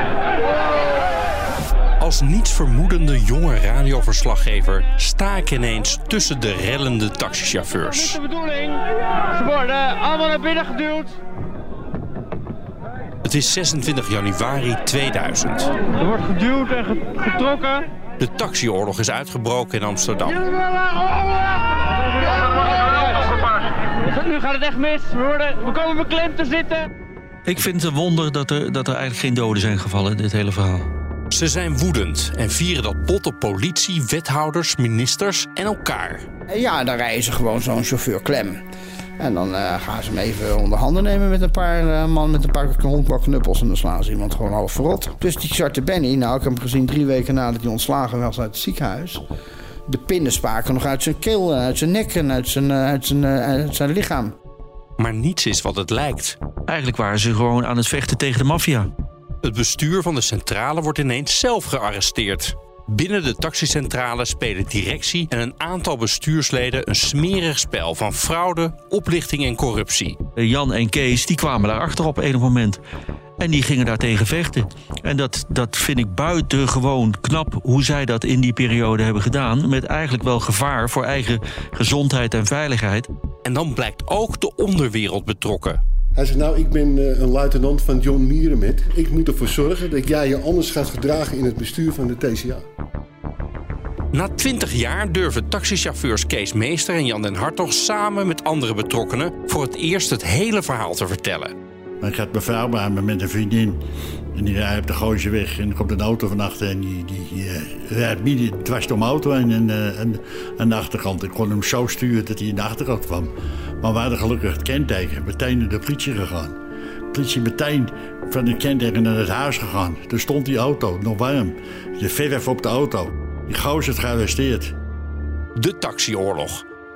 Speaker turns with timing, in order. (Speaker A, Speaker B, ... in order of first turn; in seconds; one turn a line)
Speaker A: 2.0-8.2
Speaker B: 9.4-11.0
Speaker A: 13.2-15.8
Speaker B: 16.0-17.5
Speaker A: 18.2-20.6
Speaker B: 24.2-26.8
Speaker C: 27.4-30.9
Speaker A: 31.3-36.2
Speaker D: 36.5-38.6
Speaker D: 39.2-49.2
Speaker D: 49.9-54.3
Speaker A: 55.0-56.4
Speaker C: 56.7-58.9
Speaker A: 59.4-70.2
Speaker C: 70.4-72.8
Speaker C: 73.4-83.1
Speaker A: 83.4-85.8
Speaker E: 86.1-92.6
Speaker A: 94.1-101.5
Speaker F: 102.0-103.8
Speaker F: 104.3-116.5
Speaker F: 117.1-124.7
Speaker A: 125.5-126.6